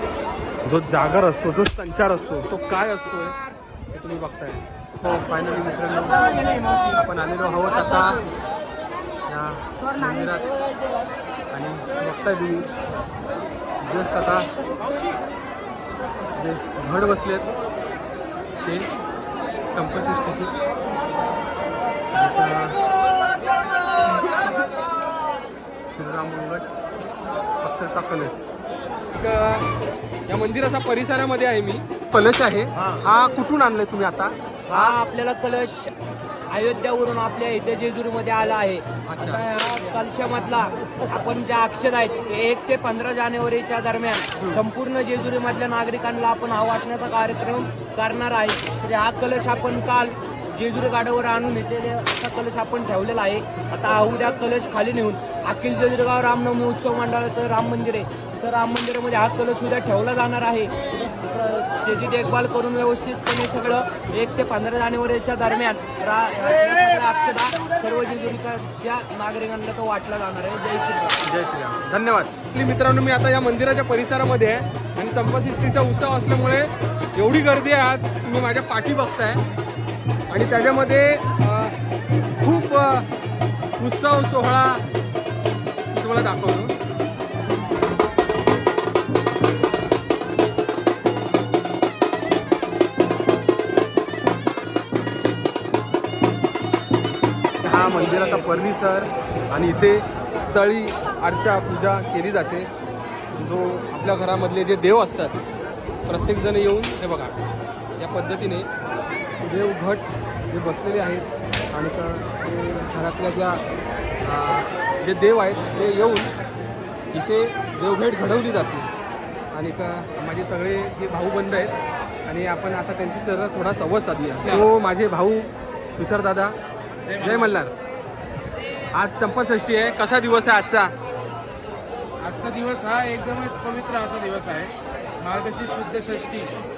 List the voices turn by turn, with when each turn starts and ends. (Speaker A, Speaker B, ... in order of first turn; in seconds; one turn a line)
Speaker A: 0.6-3.4
Speaker A: 3.9-6.3
Speaker A: 6.9-8.2
Speaker A: 9.3-10.5
Speaker A: 11.5-12.7
Speaker A: 13.8-14.5
Speaker A: 16.4-17.5
Speaker A: 18.6-18.9
Speaker A: 19.7-20.5
Speaker A: 22.1-22.8
Speaker A: 25.9-26.8
Speaker A: 27.6-28.4
Speaker A: 29.1-29.7
Speaker A: 30.3-35.0
Speaker B: 34.7-35.9
Speaker B: 36.5-71.2
Speaker A: 39.1-39.4
Speaker A: 71.2-79.4
Speaker A: 80.3-81.7
Speaker A: 82.4-83.1
Speaker A: 83.8-84.8
Speaker A: 85.9-86.7
Speaker A: 97.6-102.7
Speaker A: 103.4-105.4
Speaker A: 106.1-107.3
Speaker A: 108.0-108.7
Speaker A: 109.4-113.6
Speaker A: 114.2-116.3
Speaker A: 117.1-118.9
Speaker A: 119.5-126.5
Speaker C: 127.0-127.5
Speaker A: 127.2-127.7
Speaker A: 128.9-130.9
Speaker C: 132.2-134.7
Speaker C: 135.2-136.5